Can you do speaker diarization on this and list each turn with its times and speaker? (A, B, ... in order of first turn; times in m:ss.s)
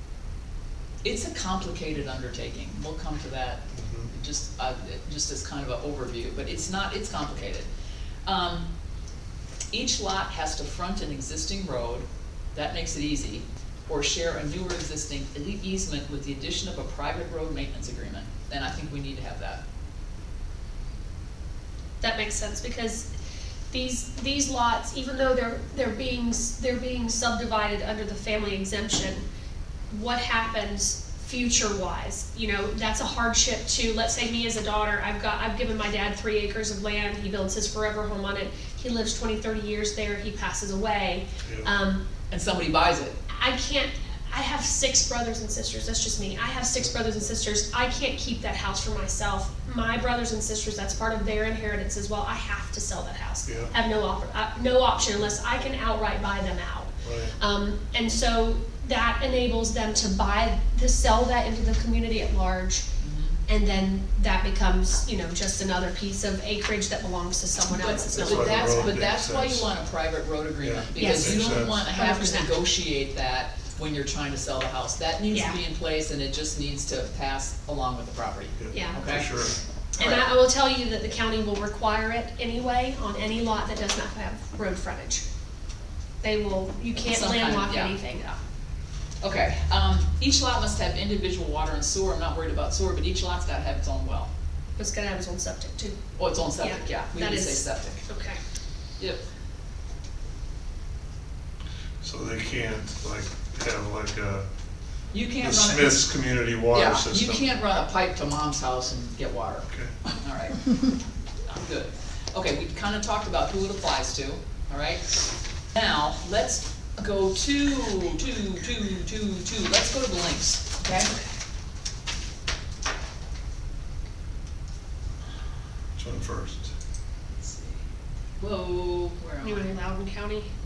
0:01.0-0:07.7 A
0:03.7-0:04.1 B
0:08.3-0:08.7 A
0:09.7-0:19.6 A
0:22.0-0:23.1 C
0:23.7-0:29.2 C
0:29.9-0:42.0 C
0:42.3-0:43.2 A
0:43.3-1:02.8 C
0:53.5-0:53.7 B
0:57.0-0:57.3 B
1:03.0-1:03.4 A
1:03.5-1:09.0 C
1:07.7-1:19.3 A
1:08.2-1:09.7 B
1:10.6-1:11.8 B
1:11.0-1:12.6 C
1:15.3-1:15.6 C
1:18.6-1:19.6 B
1:18.7-1:19.0 C
1:20.0-1:25.2 C
1:20.0-1:20.3 A
1:26.2-1:28.4 C
1:27.0-1:28.0 A
1:29.2-1:34.3 A
1:34.8-1:36.0 C
1:36.2-1:38.0 A
1:36.6-1:38.4 C
1:42.0-1:44.5 B
1:45.1-1:46.1 A
1:45.4-1:47.5 B
1:46.7-1:50.9 A
1:49.7-1:50.0 B
1:51.4-1:55.1 A
1:55.7-2:01.1 A
2:06.0-2:06.7 B
2:07.3-2:07.9 A
2:08.4-2:09.8 A
2:09.4-2:10.5 C